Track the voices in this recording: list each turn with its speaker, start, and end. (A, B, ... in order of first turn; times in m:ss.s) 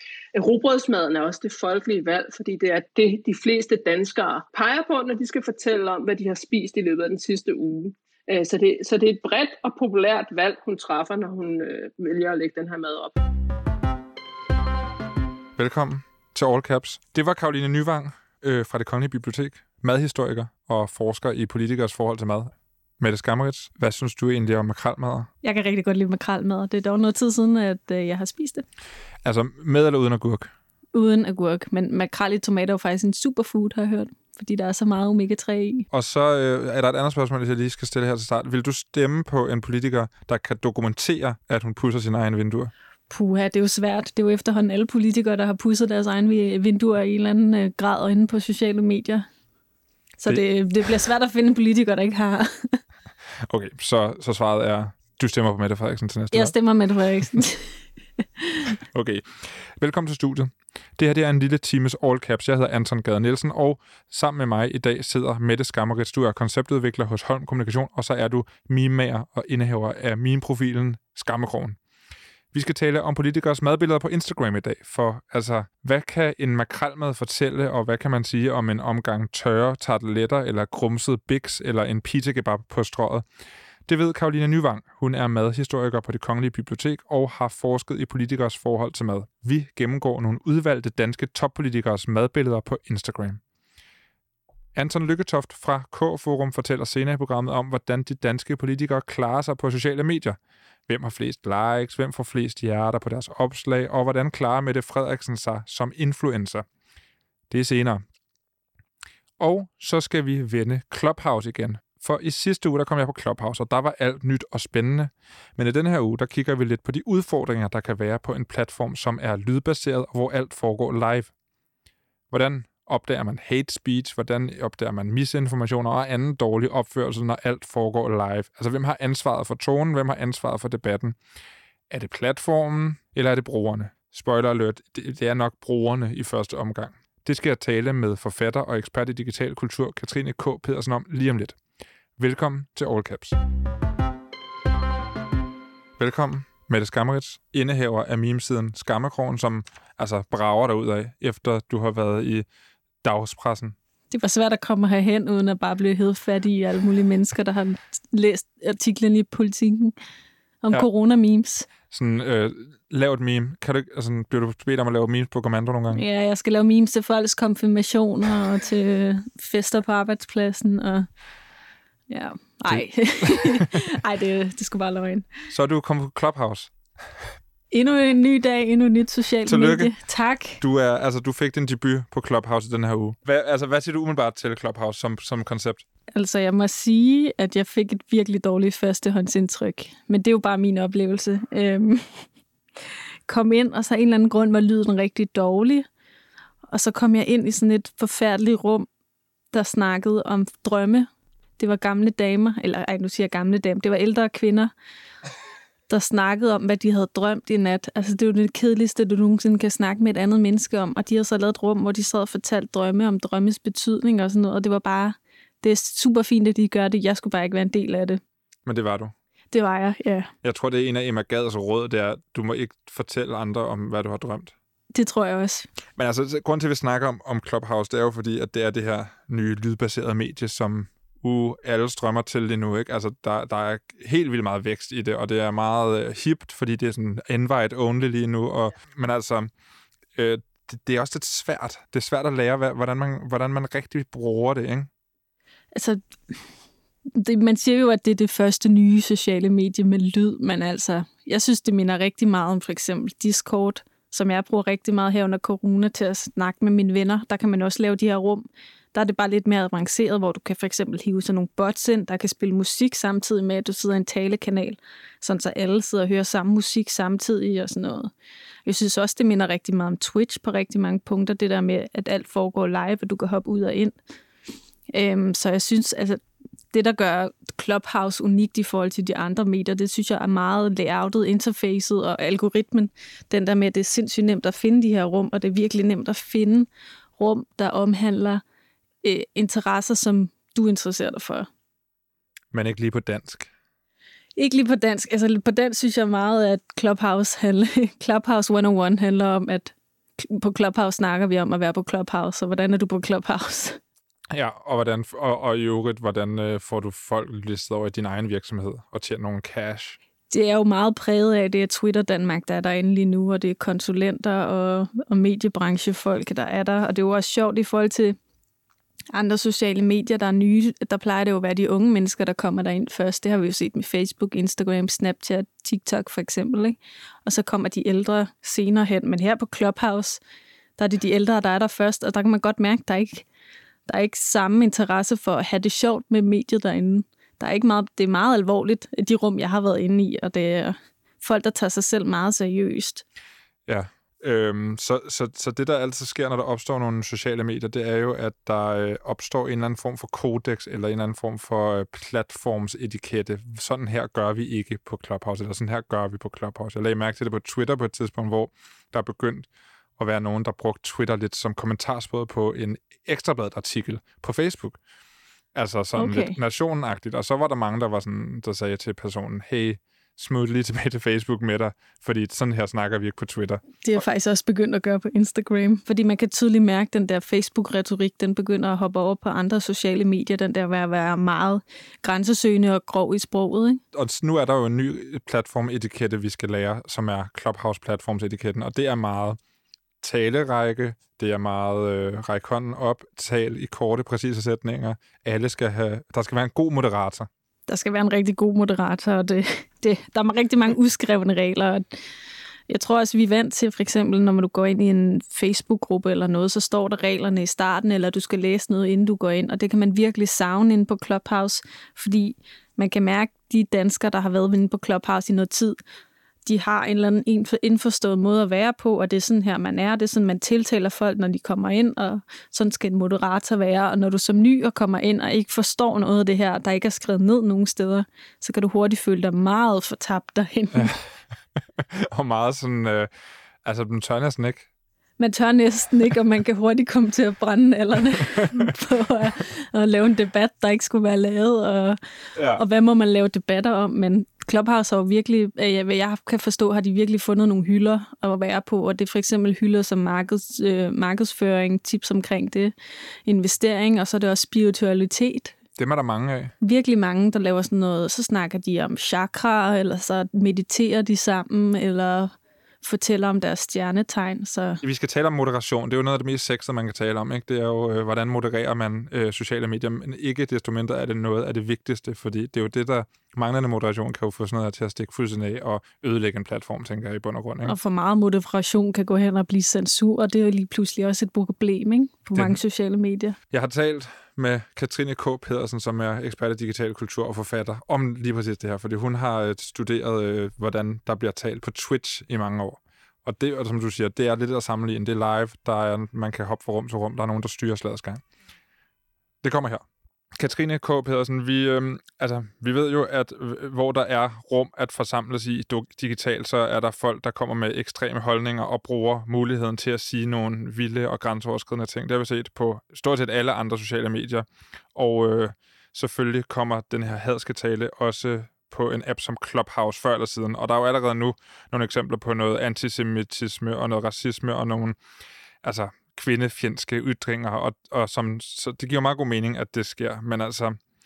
0:00.3-0:13.2 A
0:15.6-0:25.3 B
0:25.4-0:28.6 C
0:29.2-0:30.5 B
0:30.9-0:35.9 C
0:35.9-0:42.7 B
0:43.1-0:49.3 C
0:50.2-0:52.8 C
0:53.5-0:56.5 B
0:56.3-0:57.8 C
0:58.4-0:58.7 C
0:58.9-1:11.8 B
1:12.5-1:23.2 B
1:23.8-1:33.4 B
1:34.7-1:46.7 B
1:47.5-1:48.0 B
1:49.4-2:01.3 B
2:02.3-2:11.2 B
2:11.9-2:21.6 B
2:22.2-2:23.4 B
2:26.0-2:32.4 B
2:33.0-2:33.8 B
2:34.1-2:39.9 C
2:40.6-2:41.7 C
2:41.9-2:46.0 B
2:45.9-2:51.1 C
2:52.1-2:55.3 C
2:52.7-2:53.7 B
2:55.5-2:57.2 B
2:57.7-3:00.6 C
2:59.4-2:59.9 B
3:00.6-3:05.8 B
3:06.1-3:12.2 C
3:13.3-3:15.9 C
3:16.7-3:18.9 C
3:19.5-3:24.7 C
3:25.9-3:38.2 C
3:38.7-3:39.1 B
3:39.5-3:40.3 C
3:40.4-3:44.5 B
3:44.9-3:45.7 C
3:46.0-3:59.5 B
4:00.2-4:04.9 B
4:05.7-4:06.0 C
4:07.1-4:28.1 C
4:28.6-4:33.9 C
4:34.9-4:48.4 C
4:49.0-4:51.5 C
4:52.5-4:53.5 B
4:54.4-5:03.8 C
5:04.3-5:10.0 B
5:10.3-5:18.2 C
5:19.1-5:30.2 C
5:30.8-5:33.3 C
5:33.9-5:43.0 C
5:43.7-6:04.8 B
6:05.5-6:14.0 B
6:06.0-6:06.4 C
6:13.8-6:23.8 C
6:23.9-6:29.4 B
6:30.0-6:37.3 B
6:37.7-6:41.8 C
6:42.7-6:55.8 C
6:56.4-7:10.9 C
7:11.8-7:13.1 B
7:13.6-7:14.7 B
7:15.2-7:32.7 C
7:22.4-7:22.6 B
7:33.2-7:35.6 C
7:35.8-7:36.5 B
7:36.6-7:44.8 C
7:44.8-7:57.8 B
7:57.6-8:03.4 C
8:02.3-8:02.6 B
8:03.5-8:18.2 B
8:19.4-8:19.8 B
8:20.4-8:45.0 B
8:45.6-8:50.8 B